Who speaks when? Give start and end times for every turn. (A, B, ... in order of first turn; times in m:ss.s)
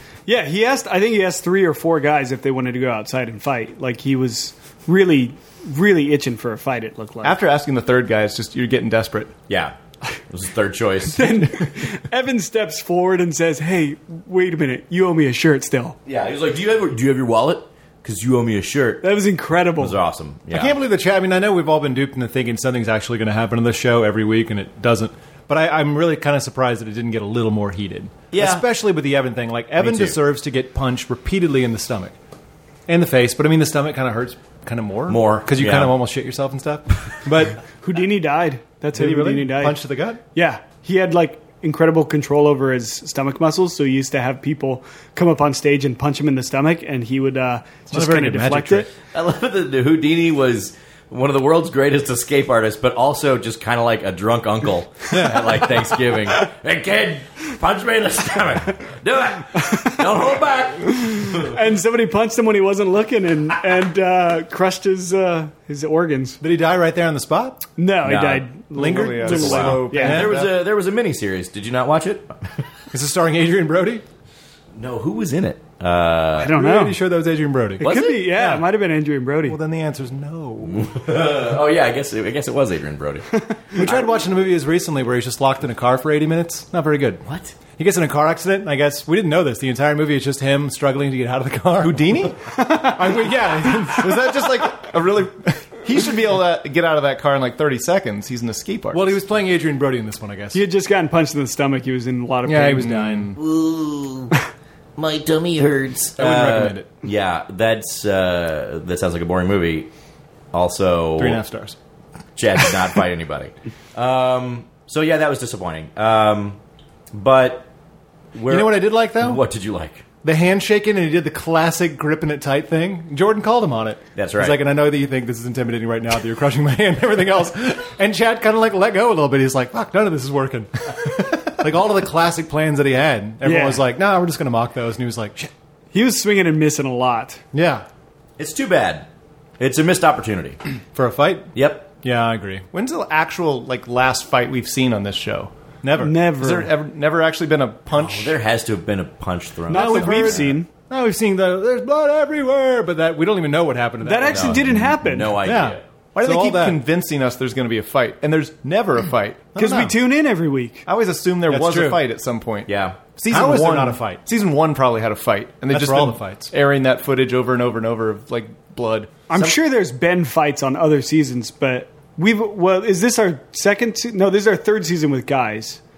0:00.3-0:07.4 A
0:07.2-0:09.3 B
0:09.5-0:09.7 C
0:10.3-0:11.5 C
0:11.1-0:16.0 A
0:16.0-0:19.0 C
0:19.0-0:20.0 A
0:19.8-0:20.7 C
0:20.5-0:32.1 D
0:28.3-0:28.6 C
0:29.8-0:30.2 C
0:32.9-0:37.6 D
0:35.1-0:36.0 C
0:37.8-0:48.9 A
0:38.9-0:40.2 D
0:47.9-0:48.9 D
0:49.1-1:01.6 C
0:55.1-0:55.6 D
1:01.4-1:06.4 A
1:06.4-1:07.6 D
1:07.8-1:10.2 A
1:08.0-1:08.5 C
1:08.7-1:10.4 D
1:08.8-1:10.5 B
1:09.3-1:12.6 C
1:12.9-1:14.0 D
1:14.8-1:16.5 C
1:16.4-1:17.0 A
1:16.5-1:18.6 D
1:17.8-1:18.2 C
1:17.8-1:19.6 A
1:19.4-1:20.9 D
1:20.7-1:24.1 C
1:23.7-1:34.7 D
1:27.2-1:27.5 C
1:31.8-1:32.4 B
1:32.5-1:33.2 A
1:33.9-1:39.2 B
1:38.9-1:40.6 D
1:40.5-1:43.3 A
1:42.4-1:43.4 D
1:43.4-1:44.3 C
1:45.0-1:49.9 C
1:46.2-1:46.9 D
1:50.5-1:51.4 C
1:51.2-1:51.8 D
1:52.4-1:56.6 C
1:57.1-1:57.7 C
1:58.3-2:00.0 C
1:58.5-1:59.4 D
2:00.2-2:15.5 D
2:04.2-2:04.6 C
2:13.4-2:13.8 A
2:15.9-2:17.4 A
2:17.5-2:17.8 D
2:18.4-2:19.1 C
2:19.6-2:20.6 C
2:20.9-2:22.6 D
2:21.6-2:21.9 C
2:22.7-2:25.5 B
2:25.8-2:26.2 D
2:26.0-2:26.7 A
2:26.4-2:28.4 B
2:27.9-2:30.5 C
2:29.7-2:30.7 A
2:29.7-2:34.8 D
2:34.0-2:35.3 A
2:34.3-2:35.8 C
2:35.4-2:36.8 D
2:36.1-2:39.5 B
2:39.5-2:40.0 D
2:39.6-2:40.8 A
2:40.8-2:49.1 B
2:41.5-2:42.0 D
2:42.7-2:43.0 C
2:43.3-2:44.2 D
2:45.7-2:46.5 D
2:49.3-2:55.8 A